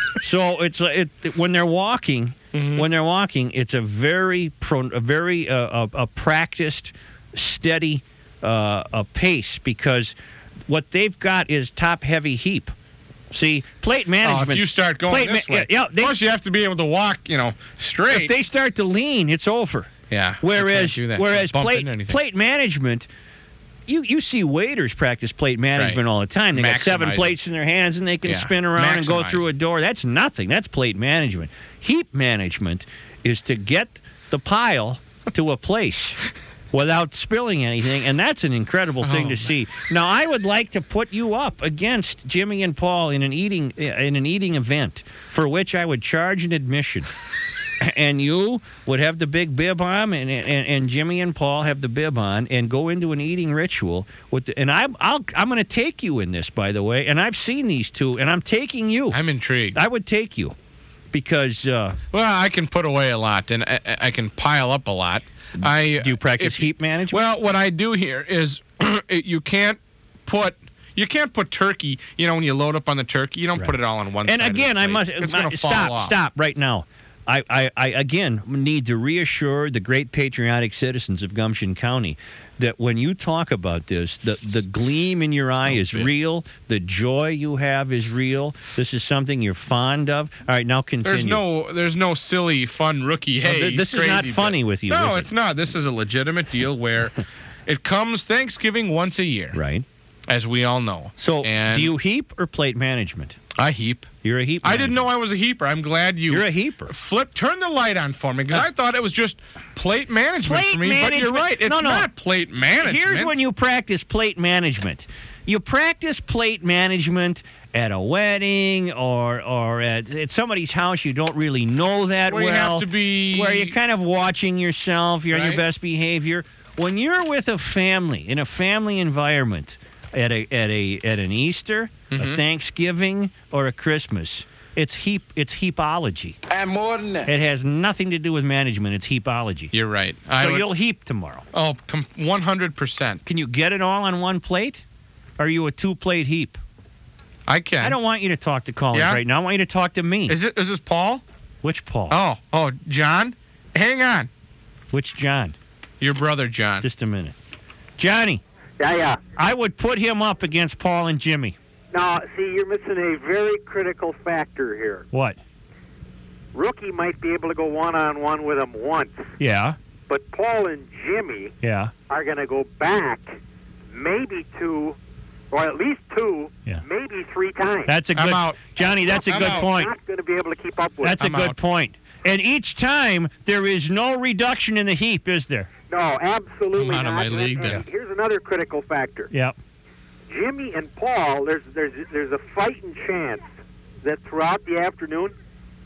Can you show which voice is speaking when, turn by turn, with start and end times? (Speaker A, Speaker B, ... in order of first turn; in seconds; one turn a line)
Speaker A: 0.2-10.2
Speaker B: 2.5-2.9
Speaker A: 10.7-12.7
Speaker A: 13.3-16.2
Speaker B: 14.2-18.3
Speaker A: 18.1-23.1
Speaker B: 20.1-22.2
Speaker A: 23.9-36.2
Speaker B: 25.8-27.4
Speaker B: 28.2-29.5
Speaker A: 36.7-47.1
Speaker B: 39.0-39.5
Speaker A: 47.8-59.2
Speaker B: 59.1-59.8
Speaker A: 59.7-60.5
Speaker A: 61.1-62.0
Speaker B: 62.1-76.2
Speaker A: 65.8-67.2
Speaker A: 73.5-91.4
Speaker B: 85.7-86.1
Speaker B: 91.0-99.6
Speaker A: 93.4-95.3
Speaker A: 99.5-99.8
Speaker B: 100.3-101.9
Speaker A: 101.2-103.4
Speaker B: 103.5-104.1
Speaker A: 104.2-105.1
Speaker B: 104.6-113.4
Speaker A: 106.3-106.9
Speaker A: 110.4-112.1
Speaker A: 112.8-136.4
Speaker B: 122.2-123.8
Speaker B: 125.3-125.6
Speaker B: 132.1-132.4
Speaker A: 137.2-139.7
Speaker B: 139.7-140.7
Speaker A: 140.4-141.4
Speaker B: 141.5-143.2
Speaker A: 143.2-144.8
Speaker A: 145.4-146.6
Speaker B: 147.5-148.0
Speaker A: 147.8-150.4
Speaker B: 148.9-149.2
Speaker B: 150.3-151.2
Speaker A: 151.6-152.2
Speaker B: 152.1-154.3
Speaker A: 154.9-155.6
Speaker B: 156.0-156.9
Speaker A: 156.8-157.3
Speaker A: 158.0-158.4
Speaker C: 158.8-159.2
Speaker A: 159.3-161.6
Speaker C: 161.9-165.1
Speaker A: 165.1-165.4
Speaker C: 166.5-169.3
Speaker A: 169.4-169.8
Speaker C: 170.1-171.5
Speaker A: 171.6-171.9
Speaker C: 172.1-173.3
Speaker C: 173.9-175.0
Speaker C: 175.5-178.0
Speaker A: 177.8-179.9
Speaker B: 178.1-178.7
Speaker C: 178.7-181.2
Speaker B: 179.3-179.7
Speaker A: 181.0-185.7
Speaker B: 181.2-181.6
Speaker C: 185.9-189.3
Speaker B: 186.7-187.8
Speaker A: 189.3-189.6
Speaker C: 190.3-193.4
Speaker C: 194.0-195.3